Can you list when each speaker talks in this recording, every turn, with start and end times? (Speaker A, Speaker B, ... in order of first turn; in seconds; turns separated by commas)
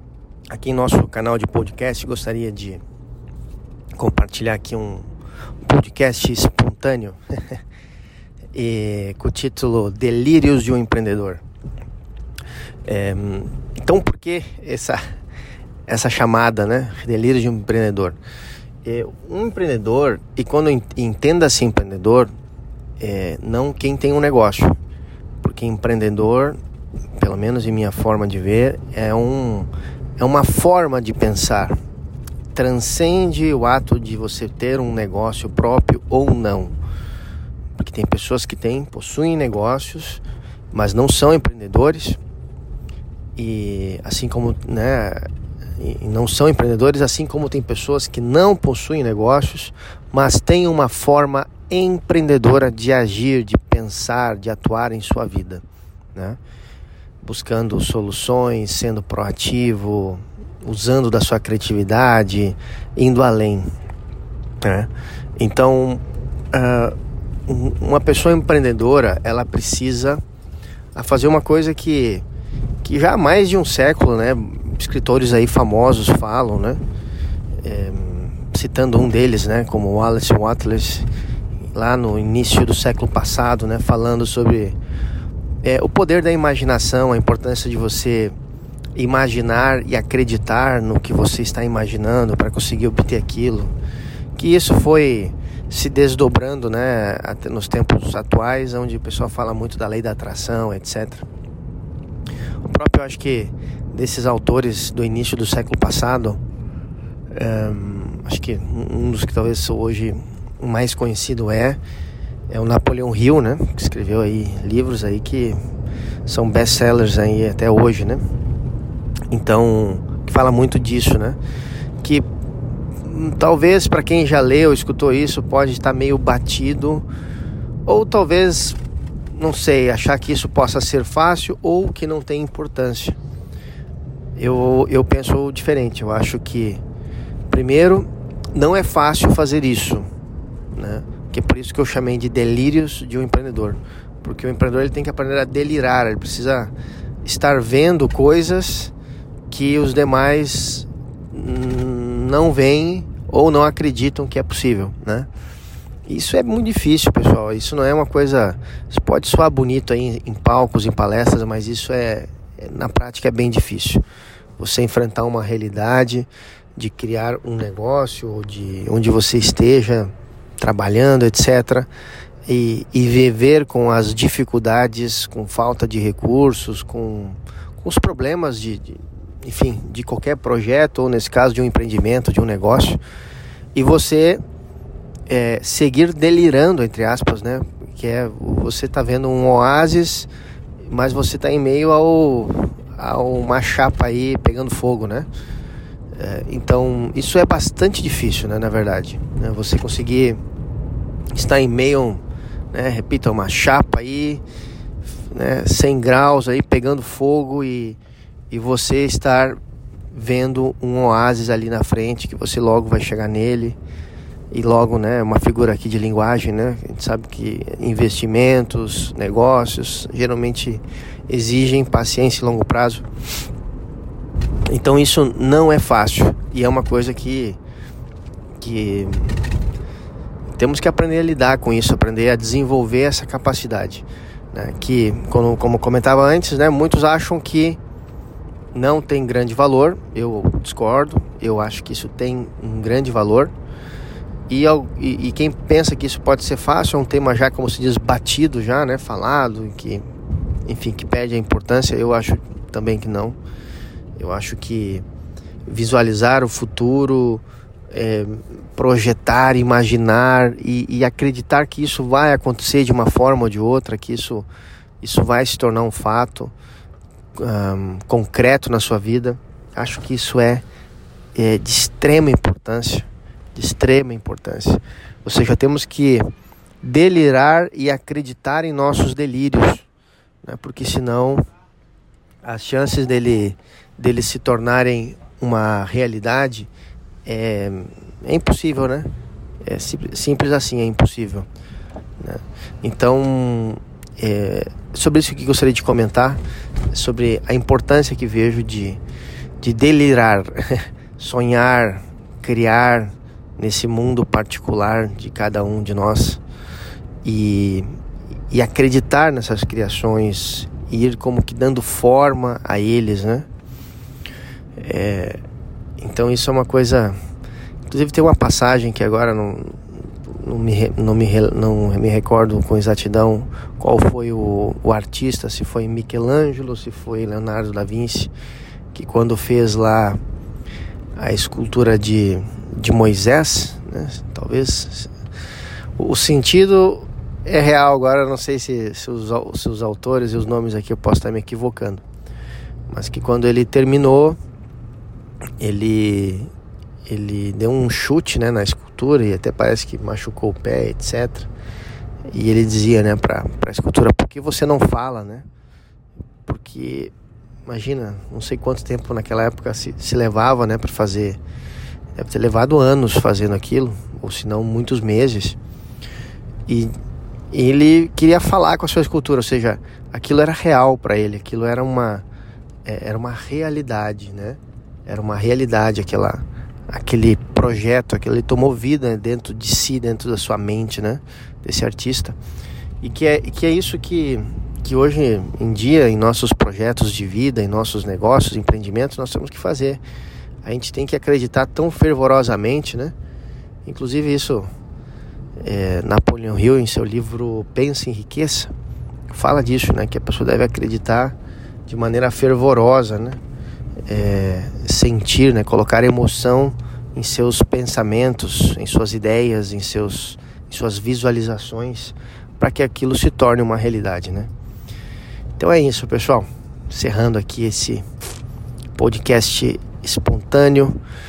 Speaker A: 0.5-2.8, Speaker A: 4.0-5.1, Speaker A: 5.6-7.6, Speaker A: 8.5-11.4, Speaker A: 12.9-15.0, Speaker A: 15.9-18.2, Speaker A: 18.8-22.3, Speaker A: 23.0-24.8, Speaker A: 25.4-26.6, Speaker A: 27.2-31.8, Speaker A: 32.5-36.8, Speaker A: 37.8-42.2, Speaker A: 43.4-45.3, Speaker A: 45.8-56.4, Speaker A: 57.2-63.7, Speaker A: 64.6-67.0, Speaker A: 67.5-70.2, Speaker A: 71.0-72.2, Speaker A: 72.8-76.8, Speaker A: 77.6-81.1, Speaker A: 81.7-84.8, Speaker A: 85.6-88.4, Speaker A: 89.0-93.7, Speaker A: 94.4-101.2, Speaker A: 102.6-106.4, Speaker A: 107.3-111.8, Speaker A: 112.5-115.6, Speaker A: 116.3-118.2, Speaker A: 119.3-121.4, Speaker A: 123.0-127.1, Speaker A: 127.9-128.8, Speaker A: 129.3-133.2, Speaker A: 134.4-136.8, Speaker A: 137.5-140.1, Speaker A: 140.7-148.9, Speaker A: 149.5-155.3, Speaker A: 156.1-164.0, Speaker A: 164.6-171.9, Speaker A: 172.5-183.0, Speaker A: 183.8-184.4, Speaker A: 185.3-190.3, Speaker A: 190.8-195.3, Speaker A: 196.1-200.4, Speaker A: 201.3-204.4, Speaker A: 205.3-208.0, Speaker A: 208.5-209.6, Speaker A: 210.1-213.8, Speaker A: 214.5-223.1, Speaker A: 224.7-227.6, Speaker A: 228.6-229.5, Speaker A: 230.5-237.8, Speaker A: 238.7-243.5, Speaker A: 244.5-250.1, Speaker A: 250.7-253.4, Speaker A: 254.2-255.1, Speaker A: 255.7-264.5, Speaker A: 265.0-266.5, Speaker A: 267.4-270.6, Speaker A: 271.4-276.3, Speaker A: 276.8-279.9, Speaker A: 280.4-281.4, Speaker A: 282.4-286.7, Speaker A: 287.2-289.1, Speaker A: 289.6-291.5, Speaker A: 292.2-299.0, Speaker A: 299.6-306.4, Speaker A: 307.2-308.0, Speaker A: 308.5-313.5, Speaker A: 314.8-315.4, Speaker A: 316.0-317.2, Speaker A: 317.9-328.3, Speaker A: 328.9-330.2, Speaker A: 331.2-335.1, Speaker A: 336.0-342.0, Speaker A: 342.9-344.4, Speaker A: 345.6-346.5, Speaker A: 347.1-351.5, Speaker A: 352.3-355.4, Speaker A: 356.5-357.1, Speaker A: 357.7-361.4, Speaker A: 362.1-365.6, Speaker A: 366.7-367.0, Speaker A: 367.5-372.2, Speaker A: 372.9-382.4, Speaker A: 383.0-390.0, Speaker A: 390.6-393.1, Speaker A: 393.9-394.7, Speaker A: 395.6-398.7, Speaker A: 399.3-401.4, Speaker A: 401.9-403.4, Speaker A: 404.1-414.5, Speaker A: 415.6-418.1, Speaker A: 419.0-421.0